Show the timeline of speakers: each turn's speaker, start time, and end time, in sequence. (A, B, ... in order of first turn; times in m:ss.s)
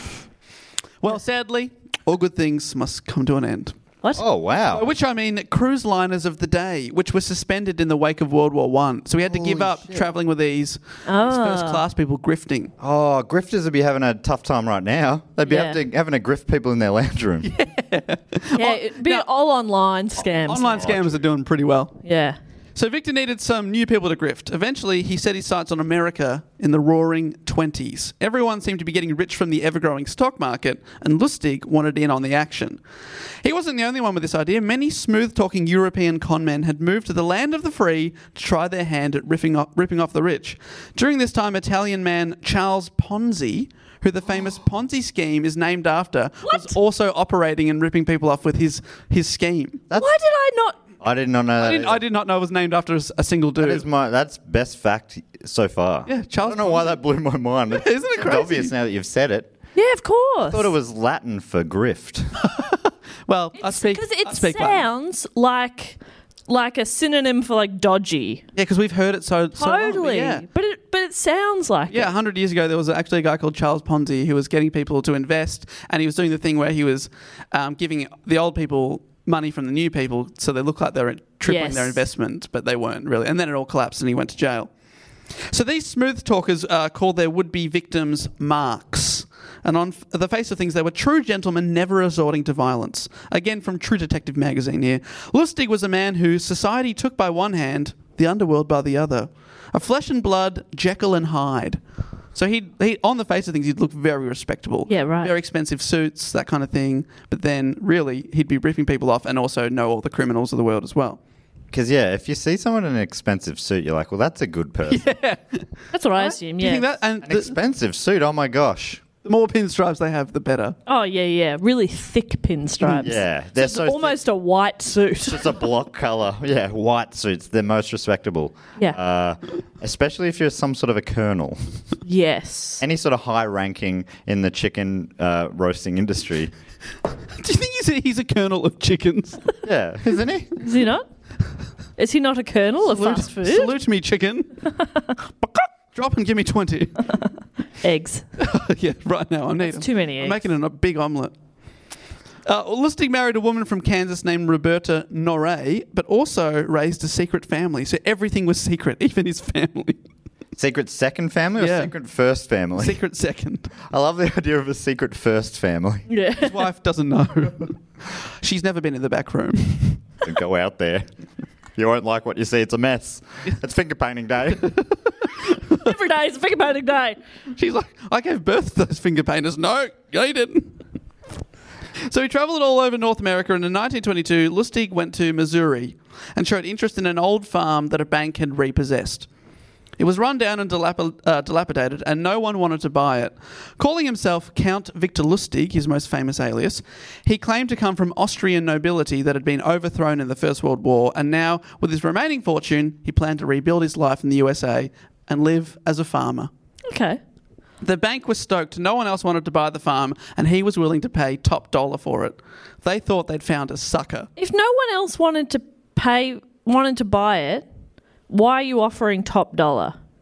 0:01.0-0:03.7 A
0:04.2-0:04.8 B
0:04.7-0:12.7 A
0:09.3-0:10.0 B
0:11.0-0:11.8 C
0:12.8-0:17.5 B
0:15.4-0:15.8 C
0:17.4-0:19.3 A
0:18.6-0:20.9 C
0:20.4-0:22.0 A
0:20.7-0:21.3 B
0:22.0-0:22.4 C
0:22.7-0:32.8 A
0:33.4-0:49.8 A
0:49.9-0:50.8 C
0:51.0-0:52.0 B
0:51.6-0:53.8 A
0:53.6-0:59.5 B
0:56.1-0:57.0 A
0:57.7-0:58.7 A
0:59.7-1:00.7 C
1:00.4-1:02.3 B
1:03.3-1:04.8 A
1:03.6-1:08.4 C
1:08.5-1:10.4 A
1:09.6-1:12.1 C
1:11.9-1:24.7 A
1:21.4-1:22.0 C
1:25.5-1:41.8 A
1:42.3-1:51.2 A
1:44.9-1:45.3 C
1:51.7-1:55.0 B
1:54.9-1:57.5 A
1:55.9-1:56.8 C
1:57.2-1:59.0 B
1:59.2-2:00.8 A
2:00.9-2:05.6 C
2:02.9-2:04.2 B
2:05.3-2:11.8 B
2:12.0-2:12.8 C
2:12.8-2:16.5 B
2:17.4-2:19.4 A
2:19.6-2:20.6 B
2:20.6-2:21.0 C
2:22.0-2:23.8 C
2:22.8-2:24.6 A
2:25.9-2:27.1 A
2:27.8-2:28.3 C
2:28.4-2:31.3 A
2:29.6-2:30.4 C
2:32.4-2:40.0 A
2:40.6-2:43.0 B
2:41.6-2:41.9 A
2:42.8-2:43.7 A
2:43.9-2:46.0 B
2:46.1-2:46.6 C
2:46.4-2:50.0 A
2:50.2-2:51.1 B
2:51.8-2:54.8 B
2:55.8-2:57.2 C
2:57.5-3:00.8 A
3:02.0-3:09.3 A
3:10.0-3:26.5 A
3:26.9-3:27.2 C
3:27.8-3:34.3 A
3:34.4-3:37.6 C
3:38.3-3:40.0 C